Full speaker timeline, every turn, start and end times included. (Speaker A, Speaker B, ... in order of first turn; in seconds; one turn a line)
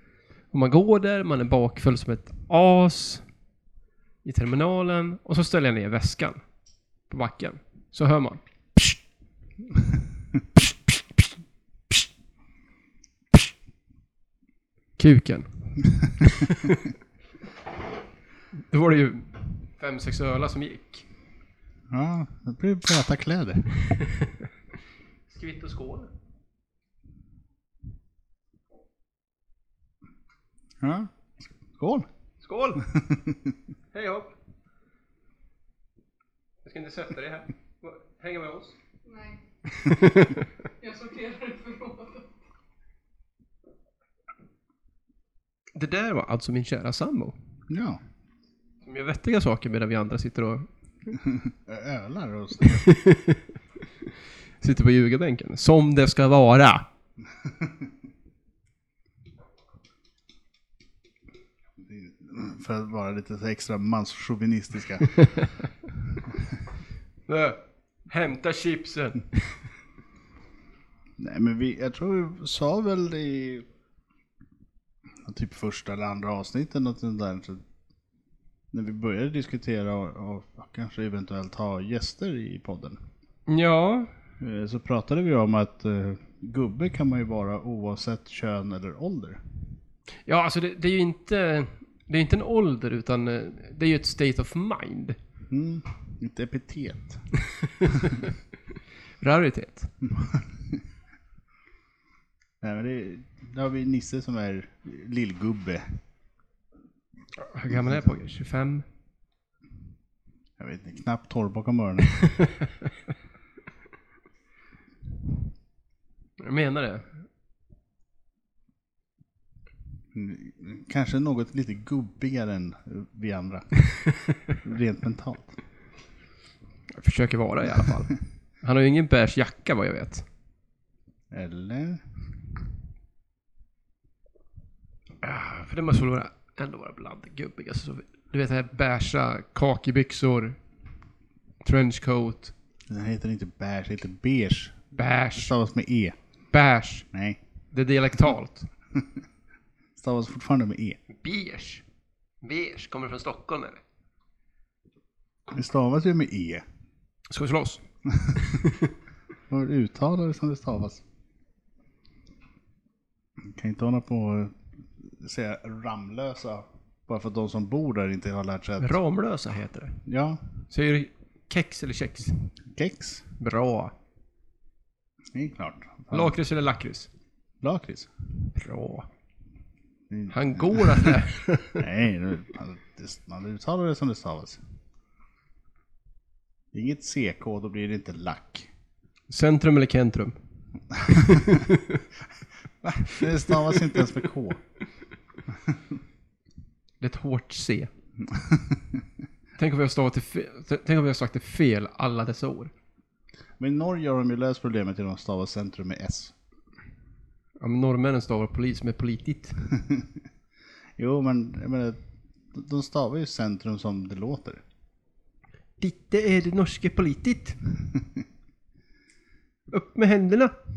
Speaker A: 0.5-3.2
Speaker A: 4.2-6.4
Speaker A: 7.1-8.4
Speaker A: 15.0-15.5
Speaker A: 16.2-16.8
Speaker A: 18.7-21.0
Speaker B: 21.9-23.7
Speaker A: 23.9-24.3
Speaker A: 25.3-26.1
Speaker B: 30.8-31.1
Speaker B: 31.7-32.1
Speaker A: 32.4-32.9
Speaker B: 32.9-33.5
Speaker A: 33.9-34.3
Speaker A: 36.6-38.7
Speaker C: 39.0-39.4
Speaker A: 39.8-40.4
Speaker C: 40.8-42.2
Speaker A: 45.7-47.3
Speaker B: 47.7-48.0
Speaker A: 48.8-51.1
Speaker B: 51.2-52.9
Speaker A: 52.6-53.5
Speaker A: 54.6-56.9
Speaker B: 57.4-57.7
Speaker B: 61.8-65.1
Speaker A: 67.3-69.7
Speaker B: 71.2-73.7
Speaker B: 75.2-77.6
Speaker B: 78.7-83.0
Speaker A: 83.5-84.1
Speaker B: 84.4-89.4
Speaker A: 90.2-95.2
Speaker B: 95.5-97.2
Speaker A: 97.6-98.3
Speaker A: 99.2-99.9
Speaker B: 100.1-100.4
Speaker B: 102.6-105.9
Speaker A: 107.4-108.8
Speaker B: 110.6-112.1
Speaker A: 112.2-112.6
Speaker A: 116.4-117.2
Speaker B: 120.1-123.7
Speaker B: 124.5-125.6
Speaker A: 126.9-130.2
Speaker B: 131.3-132.0
Speaker A: 135.2-140.6
Speaker A: 141.6-142.5
Speaker B: 142.9-144.8
Speaker A: 144.9-145.5
Speaker B: 145.3-146.2
Speaker A: 146.5-147.1
Speaker B: 147.1-147.4
Speaker A: 147.7-148.7
Speaker B: 149.9-151.0
Speaker A: 151.1-151.8
Speaker A: 152.4-153.8
Speaker B: 155.5-156.6
Speaker A: 157.3-157.8
Speaker A: 158.3-158.9
Speaker B: 159.5-161.0
Speaker B: 163.4-168.9
Speaker A: 168.8-170.0
Speaker B: 170.1-170.4
Speaker A: 170.7-172.4
Speaker B: 172.7-173.2
Speaker A: 173.4-173.9
Speaker B: 175.3-176.4
Speaker A: 176.1-177.1
Speaker B: 177.6-178.1
Speaker A: 178.5-179.1
Speaker B: 180.1-181.1
Speaker A: 180.3-181.8
Speaker B: 181.8-184.6
Speaker B: 186.7-188.7
Speaker A: 189.3-190.3
Speaker A: 191.0-192.0
Speaker B: 192.8-194.6
Speaker A: 197.0-197.9
Speaker B: 198.3-198.8
Speaker A: 199.6-202.7
Speaker B: 203.6-206.3
Speaker A: 207.6-209.6
Speaker B: 211.0-212.0
Speaker B: 212.5-214.6
Speaker A: 215.8-217.6
Speaker A: 219.7-220.5